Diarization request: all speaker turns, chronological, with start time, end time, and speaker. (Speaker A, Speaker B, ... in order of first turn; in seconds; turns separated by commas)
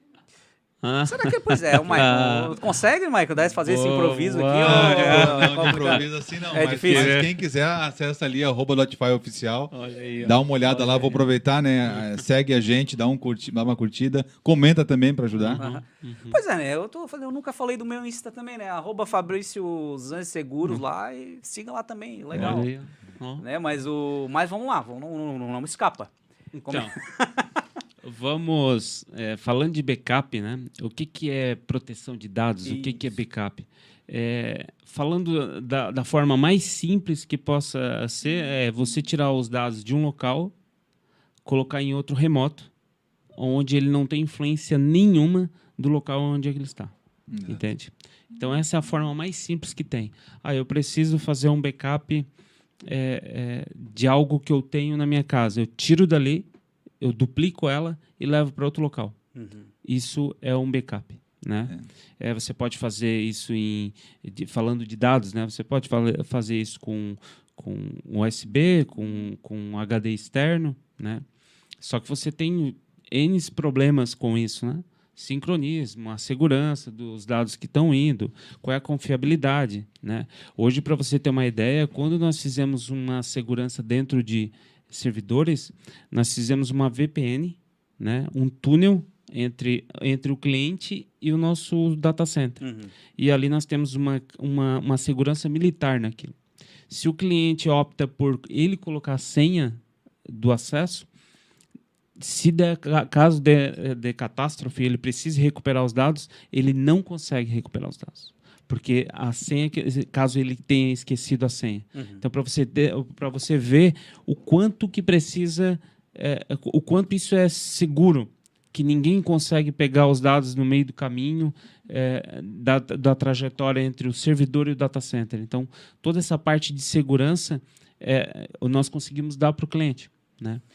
Speaker A: 0.8-2.6, Speaker B: 1.0-7.2, Speaker A: 3.6-6.0, Speaker C: 4.6-15.6, Speaker A: 6.8-7.4, Speaker A: 9.7-11.2, Speaker A: 11.9-12.2, Speaker A: 15.4-16.4, Speaker B: 15.6-22.7, Speaker C: 22.3-22.6, Speaker A: 22.3-23.4, Speaker B: 23.4-26.1, Speaker A: 26.5-26.9, Speaker B: 26.6-27.6, Speaker A: 28.0-40.5, Speaker B: 32.6-33.0, Speaker A: 41.4-42.7, Speaker A: 43.4-46.9, Speaker C: 47.3-47.6, Speaker A: 47.5-52.3, Speaker A: 52.8-56.5, Speaker A: 57.0-59.1, Speaker B: 59.3-59.7, Speaker A: 59.8-71.2, Speaker A: 71.8-92.6, Speaker B: 92.6-92.9, Speaker A: 93.1-96.3, Speaker A: 96.9-101.1, Speaker A: 102.2-130.6, Speaker B: 111.9-112.2